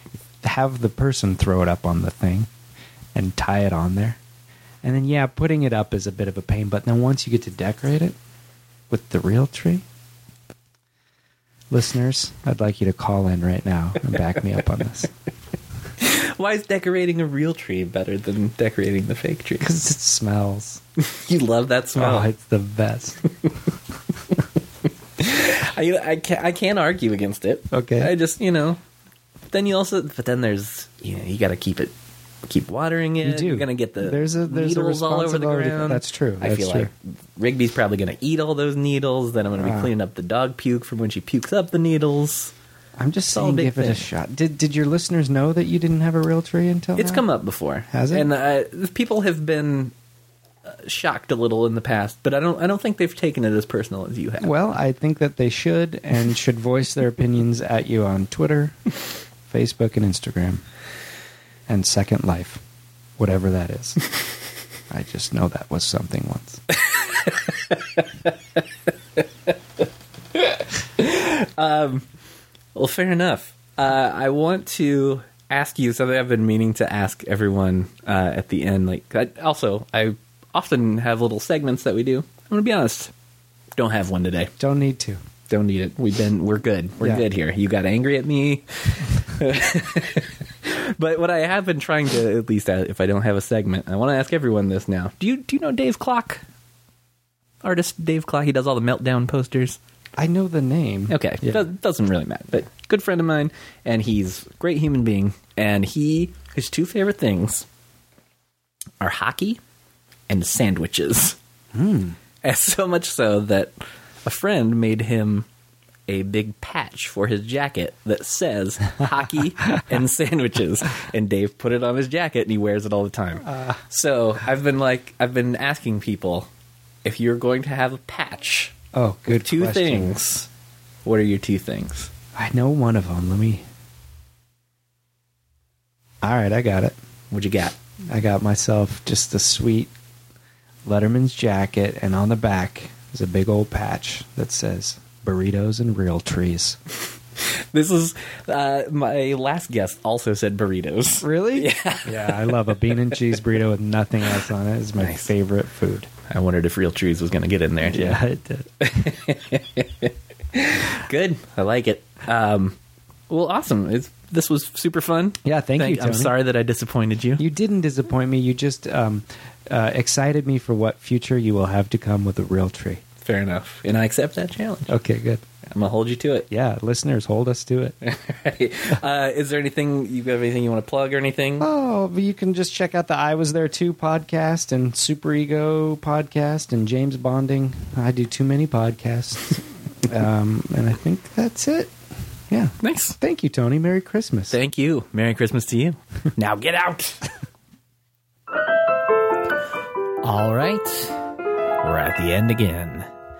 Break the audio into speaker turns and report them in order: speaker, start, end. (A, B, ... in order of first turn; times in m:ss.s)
0:00.4-0:02.5 A
0:03.2-0:04.2 A
0:04.8-0:08.2 A
0:08.9-0:09.8 A
0:11.7-0:15.1 A
0:16.0-0:19.7 B
0:19.6-0:20.8 A
0:21.0-0:22.3 B
0:22.0-0:23.2 A
0:25.2-0:28.8 B
0:27.7-0:28.1 A
0:29.5-0:31.9 B
0:32.4-0:42.5 B
0:33.2-0:36.9 A
0:39.6-0:39.9 A
0:43.0-0:47.3 A
0:43.3-0:44.0 B
0:47.0-0:49.9 B
0:47.9-0:48.3 A
0:50.7-0:54.5 B
0:54.4-0:58.8 A
0:59.5-1:00.6 A
1:01.7-1:02.6 A
1:03.2-1:04.1 A
1:04.9-1:06.6 A
1:07.2-1:08.0 B
1:10.4-1:12.1 B
1:12.8-1:23.1 B
1:23.8-1:24.5 B
1:24.6-1:25.2 A
1:25.5-1:36.4 B
1:37.6-1:39.8 B
1:40.2-1:41.6 A
1:41.1-1:47.7 B
1:49.0-1:49.6 B
1:50.3-1:51.4 B
1:51.7-1:52.2 A
1:52.4-1:53.7 B
1:54.2-1:55.5 B
1:56.1-2:06.5 B
2:03.5-2:03.8 A
2:07.0-2:08.8 B
2:08.9-2:10.2 A
2:09.3-2:10.5 B
2:11.0-2:12.1 B
2:12.4-2:13.6 A
2:16.2-2:17.0 A
2:17.3-2:17.8 B
2:18.1-2:19.9 A
2:20.8-2:26.8 A
2:27.4-2:33.4 B
2:31.2-2:36.1 A
2:35.0-2:35.3 B
2:36.3-2:38.2 B
2:37.8-2:38.9 A
2:38.8-2:42.8 B
2:43.3-2:47.4 B
2:45.4-2:46.3 A
2:47.4-2:53.0 A
2:53.2-2:55.0 B
2:54.9-2:55.4 A
2:55.7-2:56.5 B
2:56.5-2:58.0 A
2:58.0-3:01.7 B
3:01.6-3:11.9 A
3:12.5-3:14.6 A
3:12.8-3:13.2 B
3:14.5-3:17.3 B
3:20.2-3:21.2 B
3:21.8-3:23.1 B